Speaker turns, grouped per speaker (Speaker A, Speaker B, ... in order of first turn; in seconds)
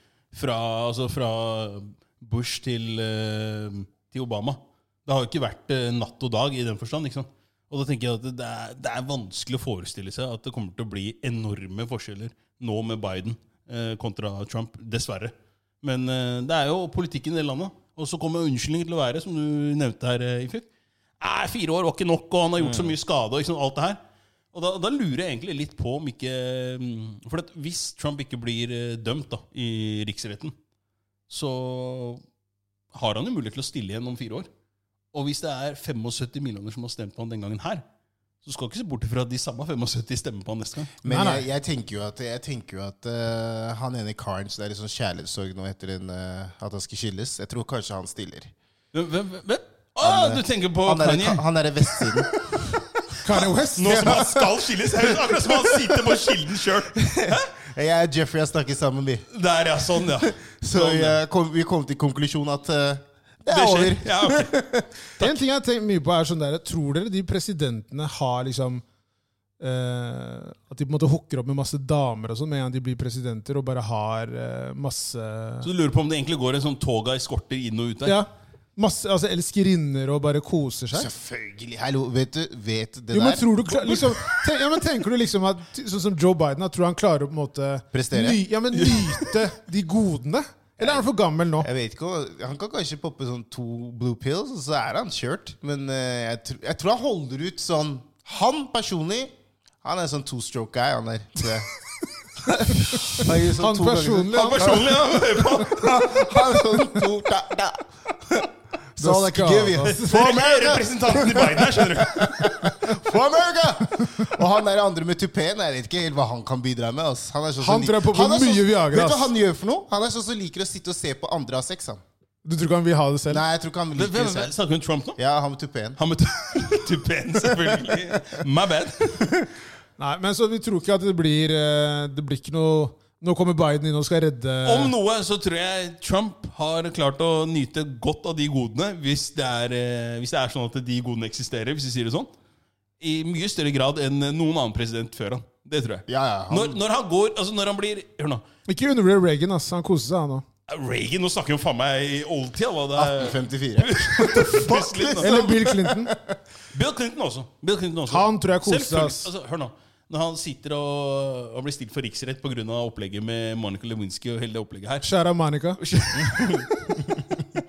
Speaker A: 0.3-20.6, 21.2-24.0, 24.5-30.5, 31.3-32.2, 32.9-34.5, 35.1-37.8, 38.4-41.0, 48.9-52.2, 53.3-57.5, 59.3-61.2, 63.5-64.5, 75.6-78.2, 88.8-89.3, 104.3-106.2, 109.8-112.6, 123.9-125.2, 126.0-129.3, 134.6-142.3, 143.0-148.4, 150.7-155.4, 156.7-165.1, 165.8-166.7
Speaker B: 22.6-23.0, 41.0-48.5, 50.0-52.8, 53.3-56.3, 57.0-59.3, 60.2-64.9, 80.9-84.2, 87.9-88.4, 90.8-91.0, 91.6-101.7, 102.4-122.0, 123.3-124.5, 125.2-126.0, 127.4-128.4, 146.1-146.8, 152.9-156.4, 166.1-167.4
Speaker C: 41.0-41.5, 53.2-54.2, 65.2-68.8, 69.6-75.7, 78.0-81.1, 83.1-91.7, 102.5-105.0, 109.0-110.1, 117.6-119.3, 122.4-123.4, 130.0-134.9, 148.7-150.4, 155.2-156.1, 158.1-159.3, 165.0-165.8